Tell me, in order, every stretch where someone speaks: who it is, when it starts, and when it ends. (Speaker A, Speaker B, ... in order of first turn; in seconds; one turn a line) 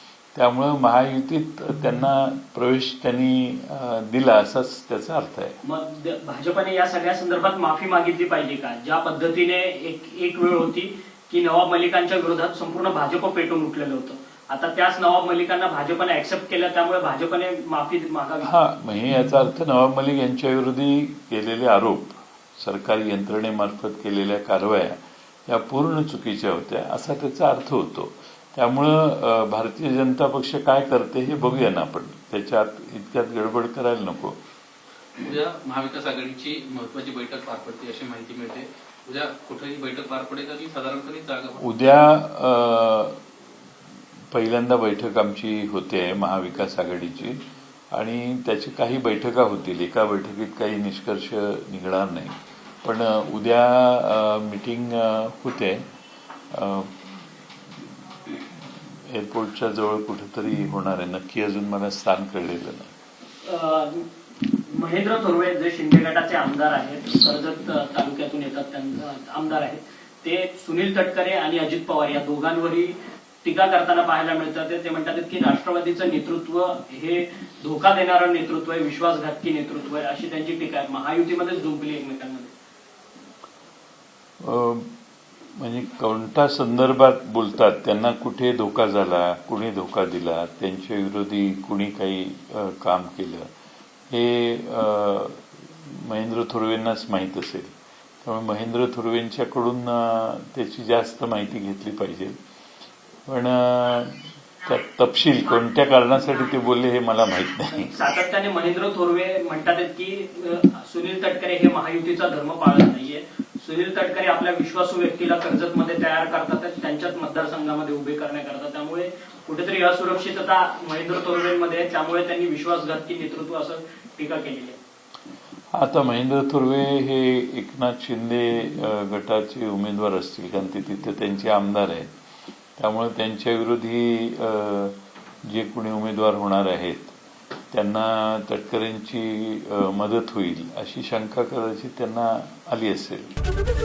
Speaker A: 0.3-5.6
Speaker B: 5.6-18.5
Speaker A: 18.4-34.4
Speaker C: 35.2-41.6
Speaker A: 41.6-43.2
Speaker A: 44.3-55.9
Speaker A: 56.5-57.2
Speaker A: 58.3-62.9
Speaker B: 63.4-82.5
Speaker A: 84.4-84.9
Speaker A: 85.6-93.5
Speaker A: 94.1-102.3
Speaker A: 103.3-107.9
Speaker B: 107.8-124.8
Speaker A: 125.7-132.1
Speaker A: 132.8-137.2
Speaker A: 137.7-143.3